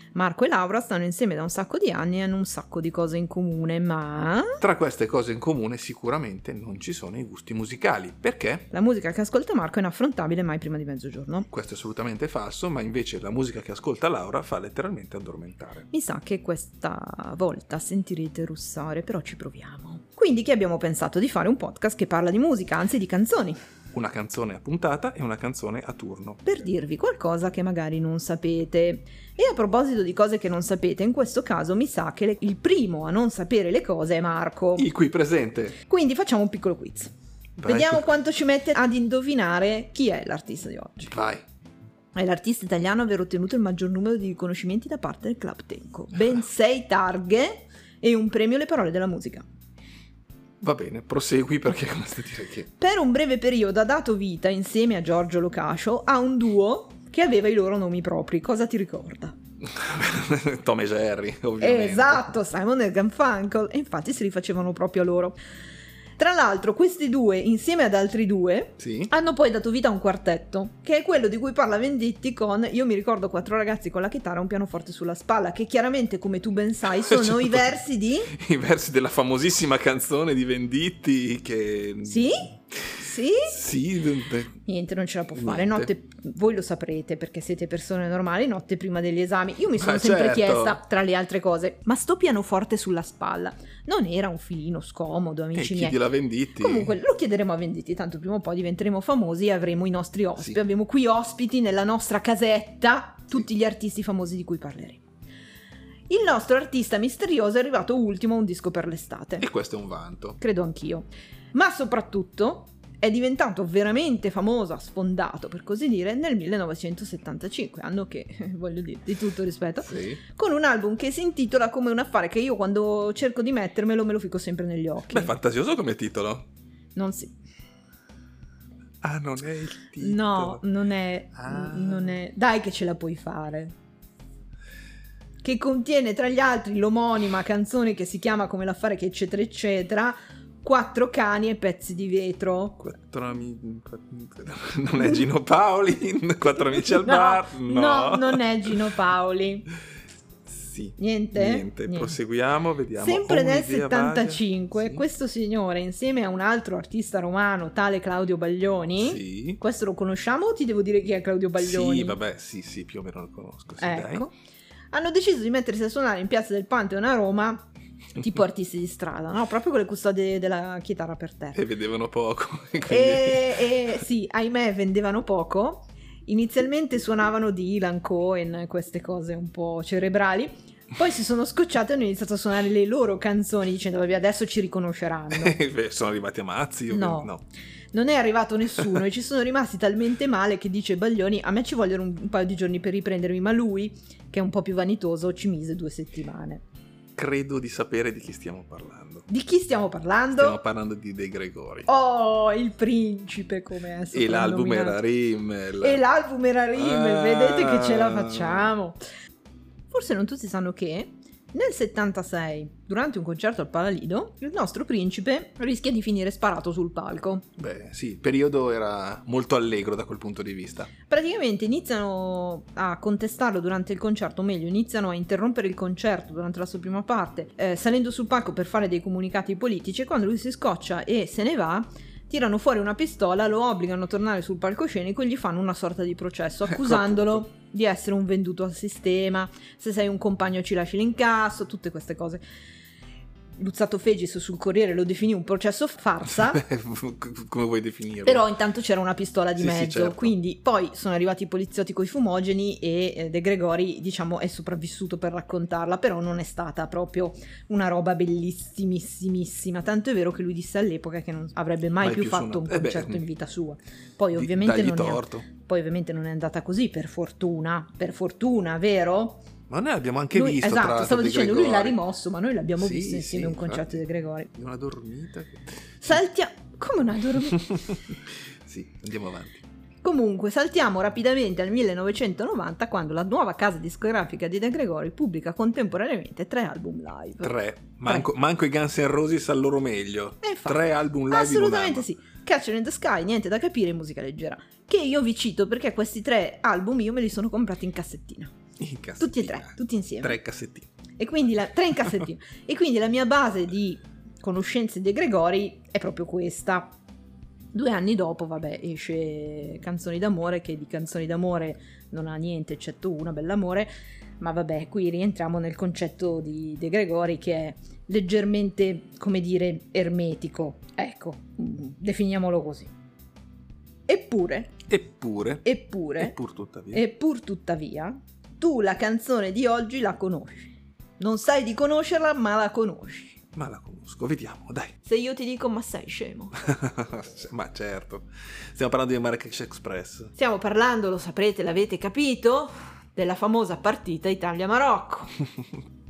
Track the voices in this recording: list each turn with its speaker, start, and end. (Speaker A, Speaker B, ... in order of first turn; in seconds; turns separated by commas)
Speaker A: 0.1-4.6, Speaker B: 4.6-8.7, Speaker A: 8.7-11.5, Speaker B: 11.5-15.9, Speaker A: 15.9-23.6, Speaker B: 23.9-26.5, Speaker A: 26.4-34.9, Speaker B: 34.8-35.8, Speaker A: 35.8-37.1, Speaker B: 37.6-38.1, Speaker A: 37.6-41.1, Speaker B: 41.0-41.4, Speaker A: 42.1-49.4, Speaker B: 50.6-52.7, Speaker A: 52.8-59.4, Speaker B: 59.6-62.3, Speaker A: 61.6-65.3, Speaker A: 66.2-78.3, Speaker B: 68.8-69.1, Speaker B: 77.0-77.7, Speaker B: 78.3-83.0, Speaker A: 82.0-83.5, Speaker B: 83.5-84.6, Speaker A: 84.6-105.0, Speaker B: 85.3-85.9, Speaker B: 89.7-90.8, Speaker B: 95.5-96.9, Speaker A: 106.1-109.4, Speaker B: 109.4-110.4, Speaker A: 110.4-125.3, Speaker B: 119.8-120.2, Speaker B: 125.1-126.5, Speaker A: 127.0-127.3, Speaker B: 129.0-130.6, Speaker A: 130.0-133.7, Speaker B: 131.3-132.2, Speaker A: 135.4-142.8, Speaker B: 142.8-148.7, Speaker A: 145.0-145.2, Speaker A: 146.5-149.7, Speaker B: 150.4-155.0, Speaker A: 151.0-152.2, Speaker A: 152.9-162.2, Speaker B: 159.0-159.6, Speaker B: 161.6-164.2, Speaker A: 163.8-164.3, Speaker A: 164.9-171.6, Speaker B: 171.5-173.9, Speaker A: 172.8-185.6, Speaker B: 185.3-187.4, Speaker A: 186.9-187.3, Speaker A: 187.9-196.6, Speaker B: 197.2-199.3, Speaker A: 199.3-200.6, Speaker B: 200.4-201.9, Speaker A: 201.8-205.0, Speaker B: 204.1-206.0, Speaker A: 205.8-209.0, Speaker B: 206.7-208.7, Speaker A: 209.9-217.5, Speaker B: 217.6-220.9, Speaker A: 221.1-242.4, Speaker B: 236.7-237.4, Speaker A: 243.6-246.6, Speaker B: 246.3-248.4, Speaker A: 248.2-269.4, Speaker B: 249.6-250.3, Speaker B: 262.0-263.3, Speaker B: 264.3-265.4, Speaker B: 269.7-272.0, Speaker A: 270.3-274.5, Speaker B: 272.8-274.0, Speaker B: 274.5-275.8, Speaker A: 276.0-277.8, Speaker B: 277.4-279.6, Speaker A: 280.0-288.3, Speaker B: 287.4-292.1, Speaker A: 290.4-298.5, Speaker B: 298.8-300.9, Speaker A: 299.2-300.4, Speaker A: 301.2-306.9, Speaker A: 307.7-322.9, Speaker A: 324.1-324.8, Speaker B: 324.9-325.7, Speaker A: 325.6-326.3, Speaker B: 326.2-327.0, Speaker A: 326.9-333.4, Speaker B: 333.5-334.9, Speaker A: 335.0-336.6, Speaker B: 336.6-340.3, Speaker A: 340.3-345.4